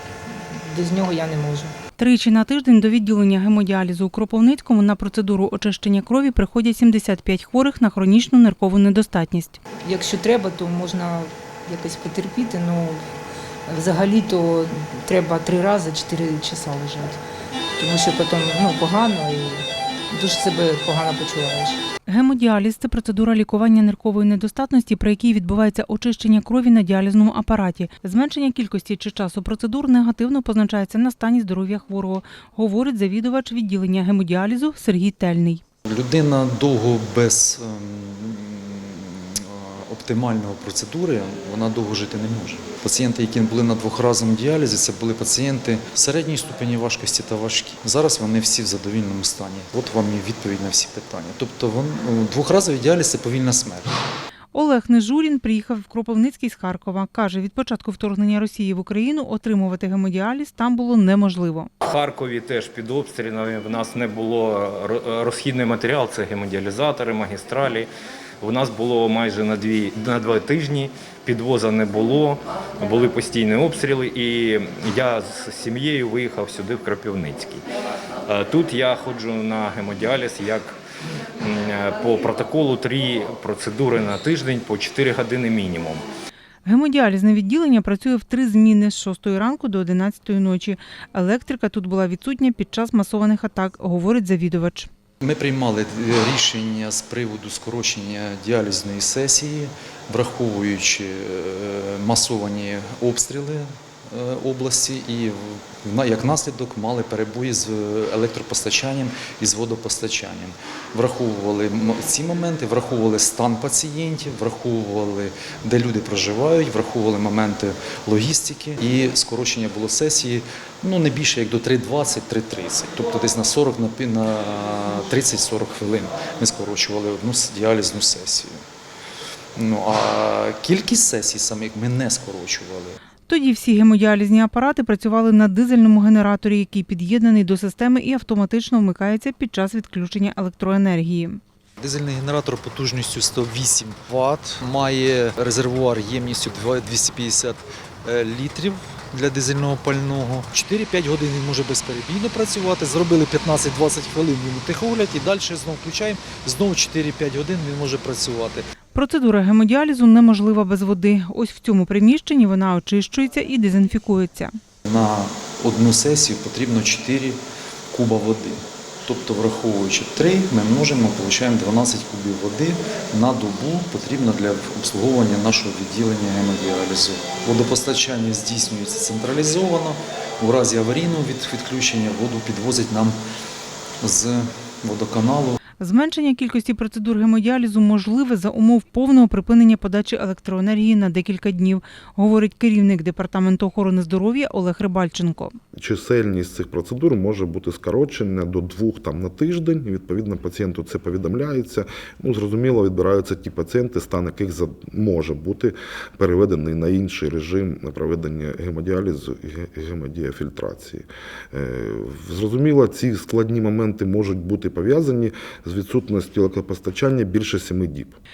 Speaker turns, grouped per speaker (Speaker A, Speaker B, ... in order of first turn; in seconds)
Speaker A: 0.5-1.7, 9.8-13.0, 13.7-17.2, 17.8-21.8
Speaker B: 2.0-9.6, 22.1-35.6, 54.5-61.7, 86.6-94.9, 133.3-141.4, 158.9-164.6, 185.8-195.6
Speaker C: 35.9-54.0, 95.2-128.6, 129.6-133.0, 141.8-158.7, 164.8-183.2, 184.0-185.6
Speaker D: 61.8-67.9, 68.4-77.6, 78.2-80.8, 81.4-86.0
Speaker E: 195.8-218.2